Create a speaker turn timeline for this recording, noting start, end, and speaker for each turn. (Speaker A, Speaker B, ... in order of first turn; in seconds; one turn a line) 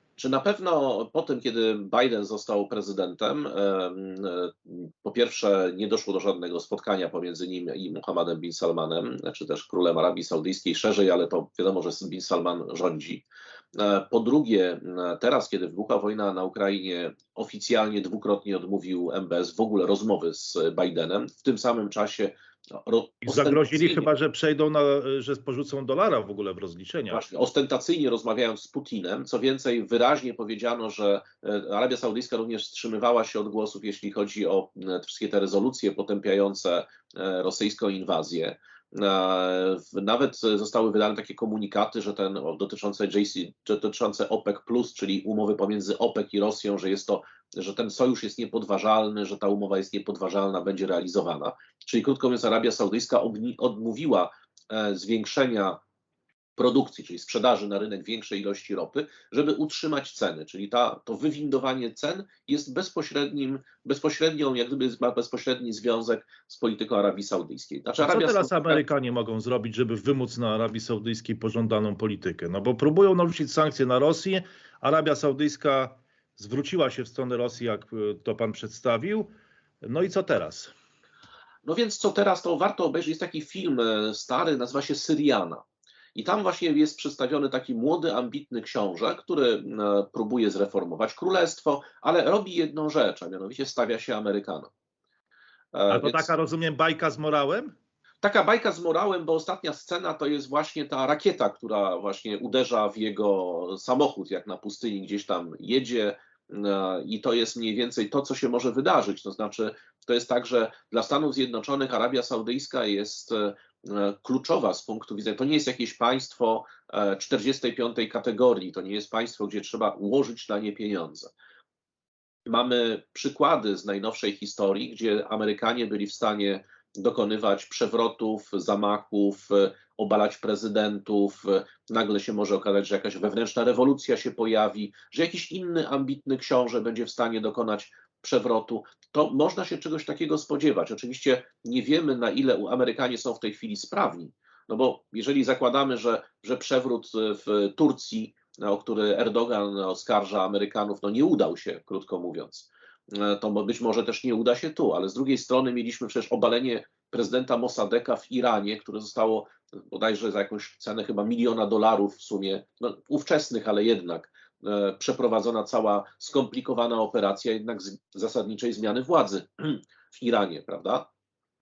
Speaker A: 0.2-24.1
Speaker B: 23.2-27.2
Speaker A: 27.1-55.8
Speaker A: 56.6-68.8
Speaker B: 68.0-79.3
Speaker B: 79.8-80.7
Speaker A: 81.7-85.6
Speaker A: 86.2-94.7
Speaker A: 95.7-96.3
Speaker B: 95.9-97.7
Speaker A: 98.2-121.3
Speaker A: 122.5-171.1